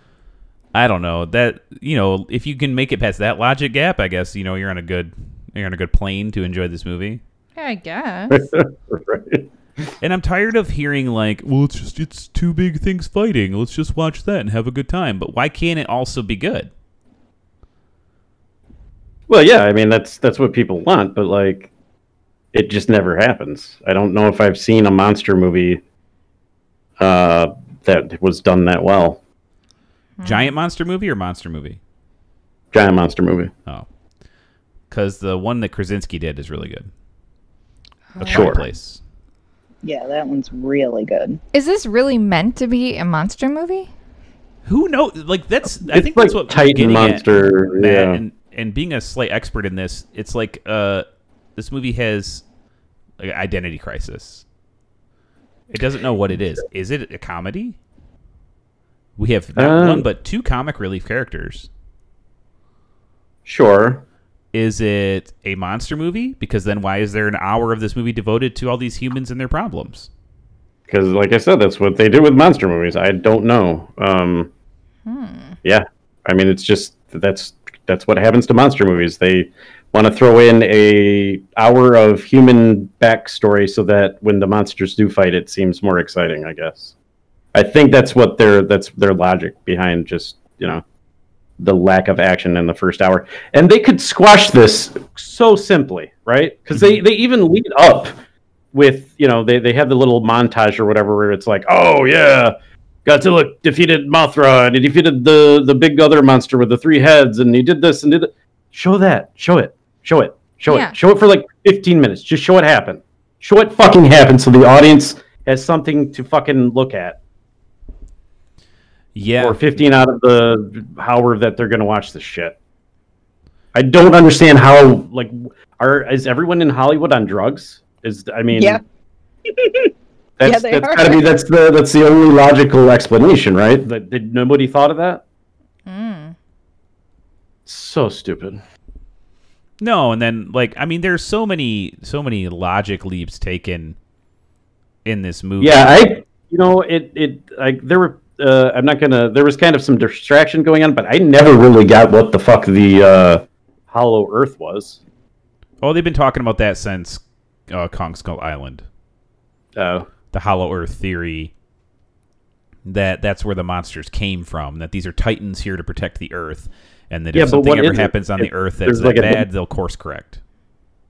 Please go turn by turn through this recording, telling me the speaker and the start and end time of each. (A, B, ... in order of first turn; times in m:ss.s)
0:00.7-0:07.2 A
0:07.6-0:08.5 B
0:08.3-0:09.5 C
0:10.0-0:16.7 A
0:19.3-0:21.7 C
0:22.5-0:25.8 C
0:27.0-0:29.2 C
0:30.2-0:30.5 B
0:30.2-0:31.8 A
0:32.7-0:33.5 C
0:34.9-0:36.9 A
0:38.1-0:38.6 B
0:38.2-0:39.0 A
0:38.2-0:38.6 C
0:39.8-0:41.4 D
0:41.5-0:43.9 B
0:44.6-0:51.0 A
0:45.8-0:48.2 C
0:51.6-0:52.4 A
0:53.2-0:54.4 A
0:55.7-0:57.8 A
0:59.2-1:01.7 A
0:59.6-1:00.0 C
1:03.4-1:04.0 C
1:04.5-1:10.1 A
1:10.9-1:14.5 C
1:15.0-1:15.6 B
1:15.6-1:26.9 C
1:27.5-1:30.8 C
1:31.6-1:38.1 C
1:38.7-1:57.2 C
1:50.7-1:51.0 B
1:59.1-1:59.6 A
1:59.4-2:02.6 C
2:03.7-2:08.8 C
2:08.5-2:08.8 D
2:09.5-2:09.9 D
2:10.4-2:15.2 C
2:10.4-2:11.2 D
2:15.8-2:16.4 B
2:17.6-2:18.6 C
2:19.8-2:24.0 A
2:25.0-2:26.1 A
2:25.6-2:35.0 C
2:35.8-2:38.8 A
2:39.8-2:40.1 C
2:40.3-2:41.5 A
2:42.8-2:50.4 A
2:47.3-2:49.4 C